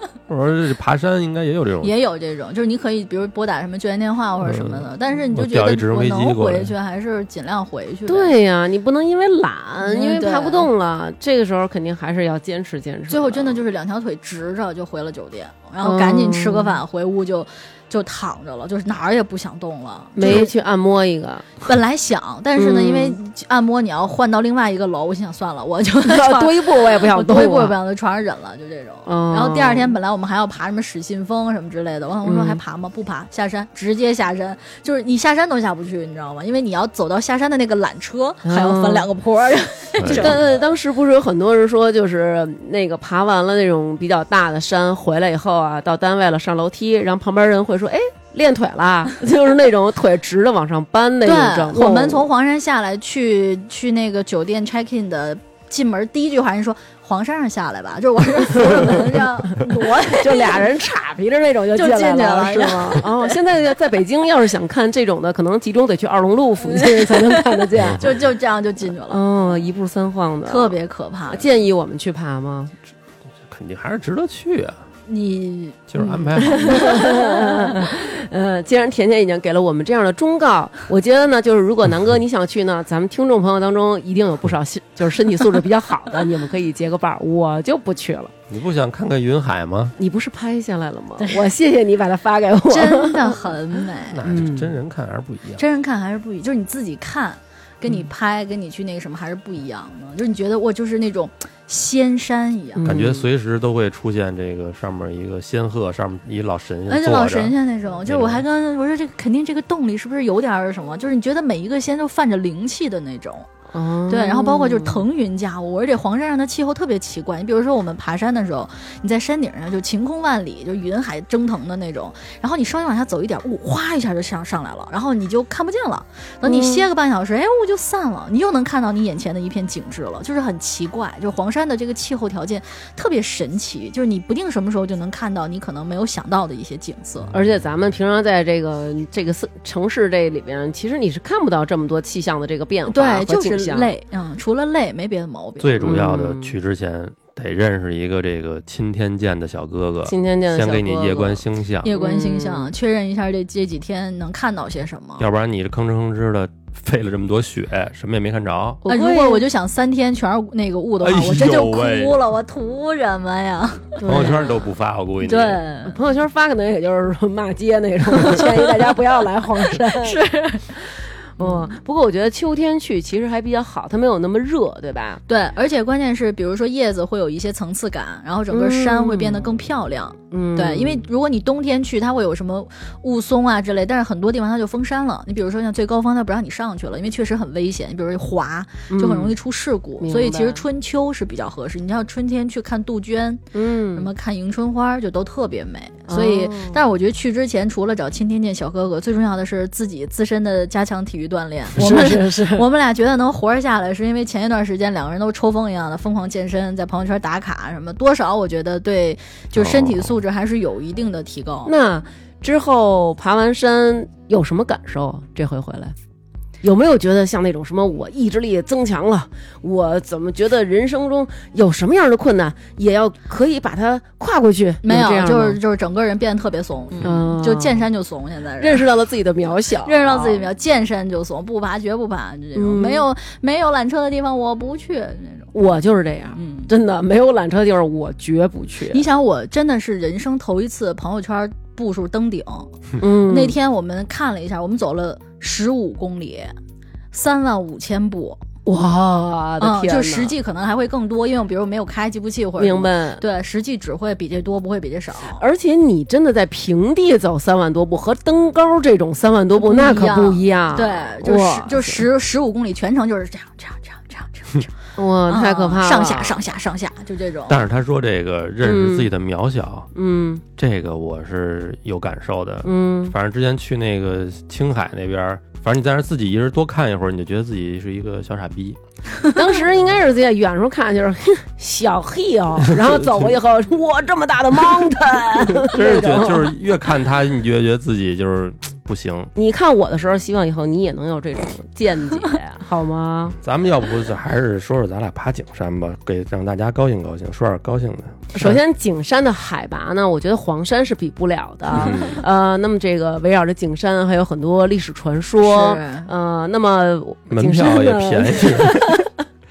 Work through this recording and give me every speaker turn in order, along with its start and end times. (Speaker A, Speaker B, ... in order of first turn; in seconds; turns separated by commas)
Speaker A: 0.3-1.9, Speaker B: 1.8-8.3, Speaker A: 4.4-6.7, Speaker C: 8.1-13.6, Speaker B: 9.8-10.7, Speaker B: 13.1-20.5, Speaker C: 15.8-16.8, Speaker C: 20.2-21.6, Speaker B: 21.6-40.4, Speaker C: 22.6-23.2, Speaker C: 26.0-27.8, Speaker C: 29.1-29.9, Speaker C: 32.2-32.6, Speaker C: 38.5-39.1, Speaker A: 40.0-40.4, Speaker C: 40.1-52.3, Speaker B: 51.2-60.7, Speaker C: 58.6-59.0, Speaker C: 60.0-68.2, Speaker B: 61.8-63.3, Speaker B: 66.7-69.2, Speaker C: 69.1-70.8, Speaker B: 70.5-71.4, Speaker C: 71.3-72.7, Speaker A: 73.5-74.8, Speaker B: 75.1-77.9, Speaker A: 75.9-76.9, Speaker C: 76.4-88.3, Speaker A: 88.5-90.0, Speaker C: 90.0-93.4, Speaker B: 92.7-94.2, Speaker A: 94.1-95.6, Speaker C: 94.3-94.7, Speaker B: 95.6-102.9, Speaker C: 102.8-103.2, Speaker A: 102.8-107.5, Speaker B: 106.9-113.5, Speaker A: 108.1-108.5, Speaker C: 113.7-115.0, Speaker B: 114.1-137.3, Speaker C: 126.4-126.9, Speaker C: 137.3-143.9, Speaker B: 142.9-146.0, Speaker A: 145.6-151.9, Speaker C: 145.8-146.5, Speaker C: 150.1-152.7, Speaker B: 151.8-155.2, Speaker A: 155.2-158.8, Speaker C: 158.8-159.4, Speaker B: 158.9-164.0, Speaker A: 161.0-162.2, Speaker C: 164.0-164.6, Speaker A: 164.1-165.6, Speaker B: 165.2-165.9, Speaker C: 165.9-170.2, Speaker B: 168.2-168.7, Speaker B: 169.8-170.8, Speaker C: 171.4-175.2, Speaker B: 175.3-193.4, Speaker C: 178.5-179.5, Speaker C: 180.3-181.1, Speaker C: 188.9-189.3, Speaker C: 190.0-190.6, Speaker C: 193.5-194.1, Speaker B: 193.9-211.7, Speaker C: 196.1-196.8, Speaker C: 201.8-202.7, Speaker A: 209.6-210.1, Speaker C: 211.7-215.9, Speaker C: 216.6-225.6, Speaker B: 224.8-228.8, Speaker C: 227.0-227.8, Speaker C: 228.6-230.5, Speaker B: 229.8-235.5, Speaker C: 232.6-233.1, Speaker C: 235.5-239.0, Speaker B: 236.3-236.7, Speaker B: 238.9-246.6, Speaker C: 243.0-243.6, Speaker B: 247.1-248.4, Speaker C: 248.7-250.3, Speaker B: 249.6-255.4, Speaker C: 252.6-253.2, Speaker C: 255.4-262.1, Speaker B: 259.6-264.7, Speaker C: 265.0-266.4, Speaker B: 265.3-267.6, Speaker A: 267.5-269.9, Speaker C: 268.6-269.1, Speaker C: 269.9-270.4, Speaker A: 270.6-278.8, Speaker C: 272.6-273.1, Speaker C: 279.3-286.5, Speaker A: 282.6-283.4, Speaker A: 285.6-289.3, Speaker C: 289.4-293.4, Speaker A: 293.4-298.6, Speaker C: 298.3-309.1, Speaker A: 301.8-302.2, Speaker B: 305.4-306.1, Speaker A: 307.3-309.0